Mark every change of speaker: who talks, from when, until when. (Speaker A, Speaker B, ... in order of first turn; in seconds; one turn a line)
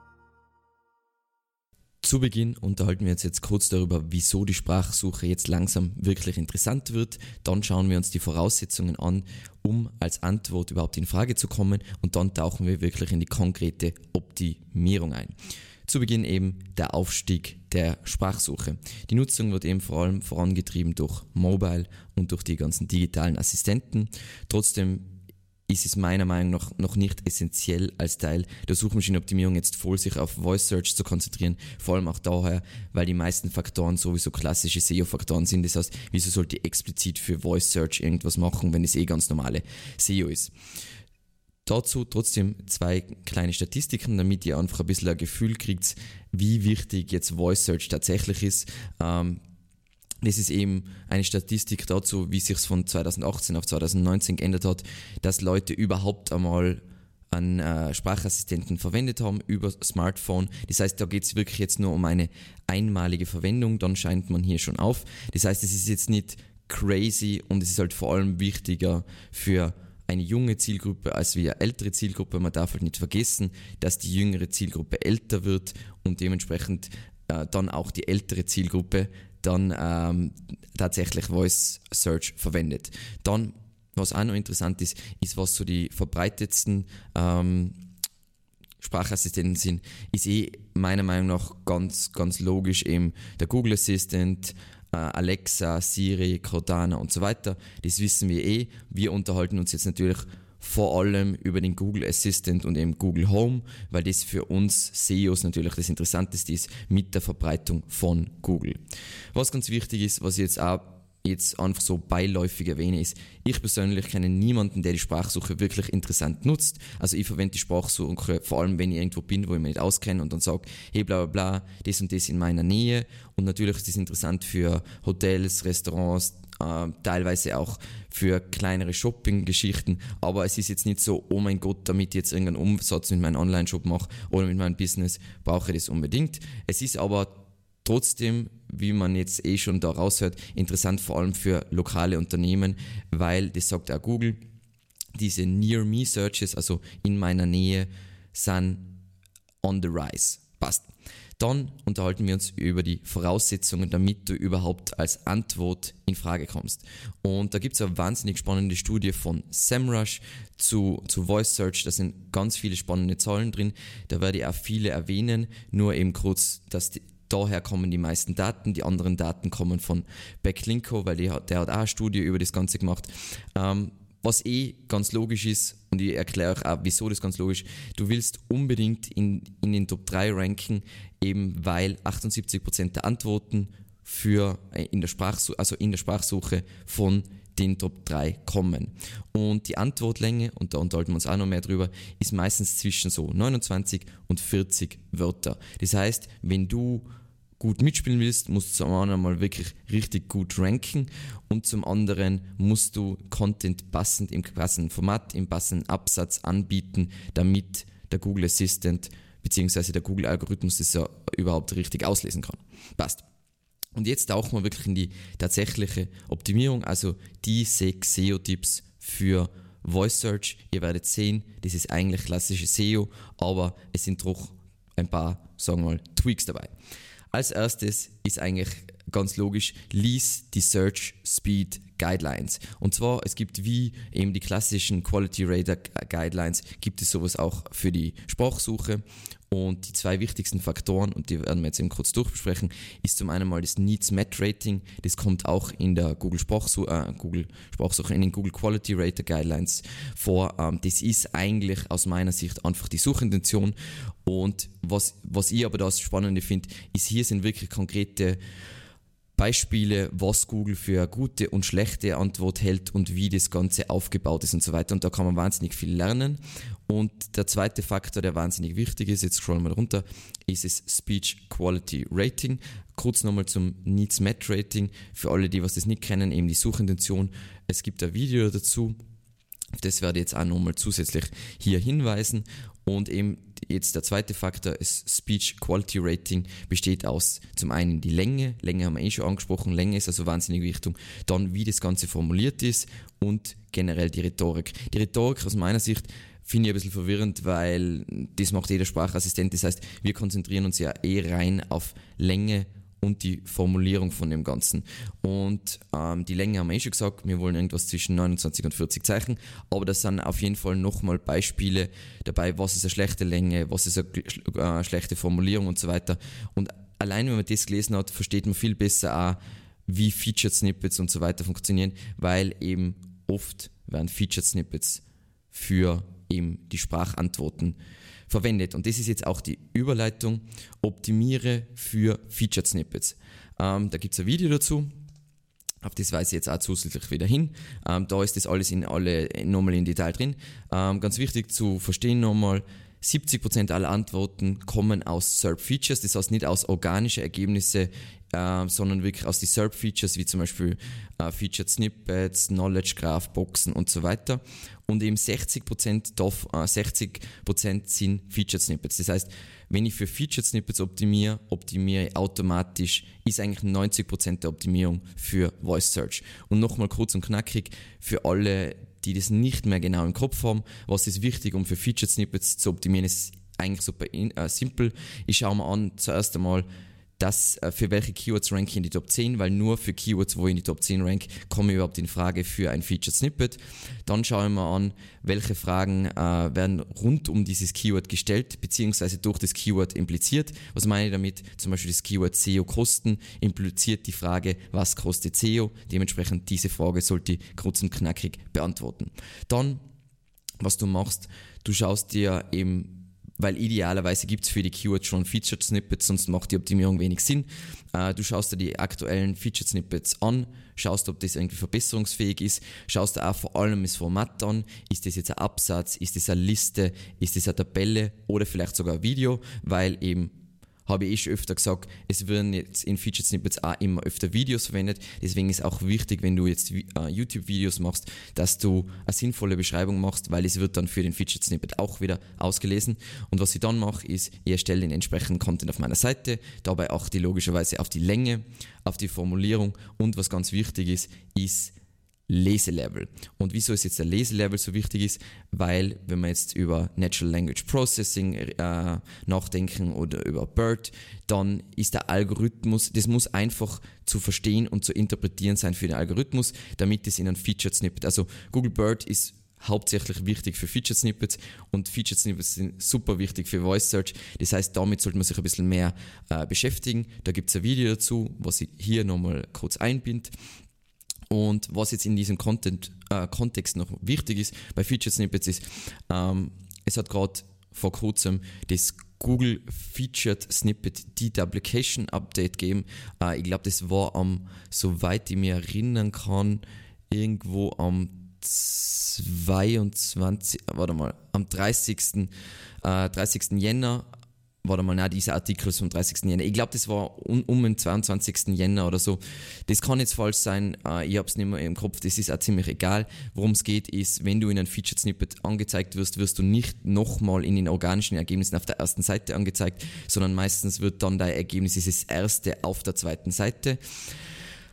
Speaker A: 2.0-15.3
Speaker A: 15.9-25.2
Speaker A: 25.7-40.5
Speaker A: 41.7-49.4
Speaker A: 50.2-87.8
Speaker A: 88.8-108.8
Speaker A: 109.3-144.4
Speaker A: 145.2-149.0
Speaker A: 149.6-197.1
Speaker A: 197.6-213.2
Speaker A: 214.0-226.7
Speaker A: 227.3-258.4
Speaker A: 259.4-279.0
Speaker A: 279.8-327.8
Speaker A: 328.3-334.9
Speaker A: 335.8-376.7
Speaker A: 377.2-399.8
Speaker A: 400.6-420.3
Speaker A: 420.9-441.7
Speaker A: 442.3-470.3
Speaker A: 471.3-492.3
Speaker A: 492.8-494.1
Speaker A: 494.6-513.8